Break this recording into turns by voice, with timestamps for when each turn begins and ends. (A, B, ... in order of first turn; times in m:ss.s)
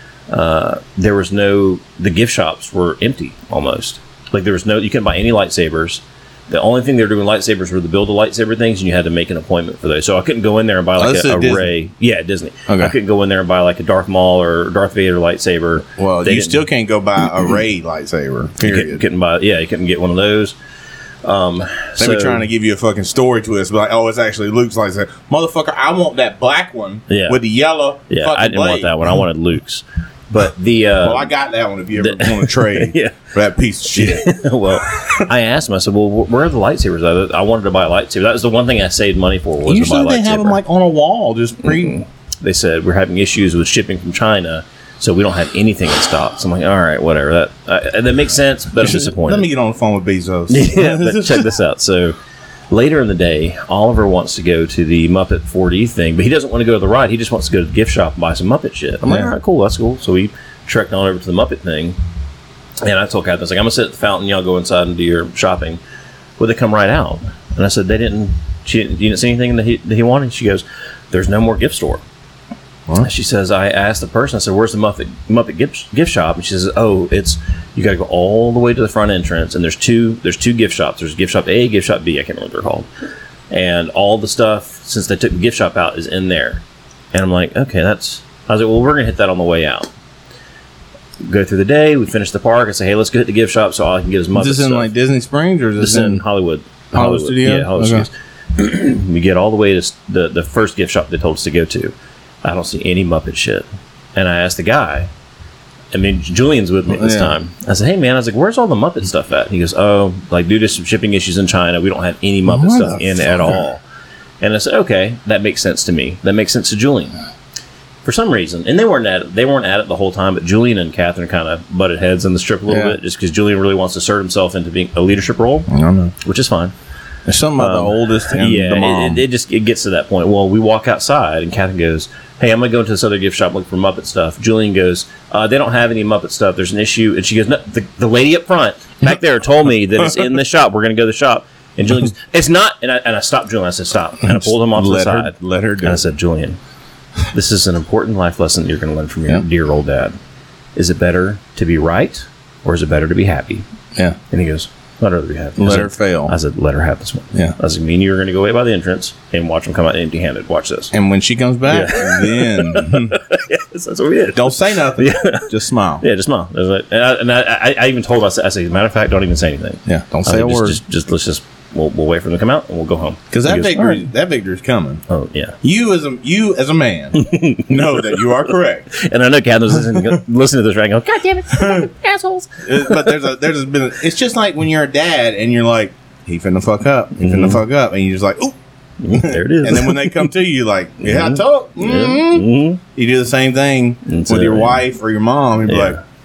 0:00.3-0:16.6 A
0:11.0-0:11.7 B
0:12.7-0:13.0 B
0:16.0-0:19.0 B
0:18.6-0:20.6 A
0:21.2-0:22.5 A
0:22.0-0:29.0 B
0:27.1-0:27.4 A
0:28.1-0:31.3 A
0:31.0-0:34.3 B
0:32.0-0:33.2 A
0:33.9-0:40.6 A
0:34.9-0:35.3 B
0:39.7-0:42.0 B
0:41.6-0:49.5 A
0:48.8-0:51.5 B
0:50.5-0:52.2 A
0:52.7-1:02.0 A
0:59.0-0:59.3 B
1:02.8-1:05.8 A
1:06.4-1:12.0 A
1:13.0-1:22.9 A
1:23.5-1:29.9 A
1:31.2-1:34.9 A
1:34.4-1:36.2 B
1:35.8-1:43.6 A
1:36.9-1:38.1 B
1:44.2-1:45.1 A
1:45.9-1:53.8 A
1:46.9-1:47.4 B
1:52.5-1:53.6 B
1:54.4-1:57.1 A
1:58.0-2:05.7 A
2:02.7-2:03.0 B
2:05.7-2:06.1 B
2:06.2-2:06.7 A
2:07.3-2:09.2 B
2:07.6-2:26.6 A
2:24.2-2:26.0 B
2:27.3-2:30.2 A
2:30.8-2:33.6 A
2:34.3-2:40.9 A
2:35.6-2:36.3 B
2:40.9-2:43.2 B
2:41.7-2:54.1 A
2:44.3-2:46.0 B
2:49.9-2:50.8 B
2:53.3-2:55.0 B
2:55.1-2:55.6 A
2:55.6-2:58.9 B
2:57.2-3:03.2 A
3:02.6-3:08.6 B
3:07.2-3:07.6 A
3:09.0-3:10.3 A
3:09.1-3:16.0 B
3:11.0-3:12.8 A
3:14.1-3:14.8 A
3:15.7-3:16.0 A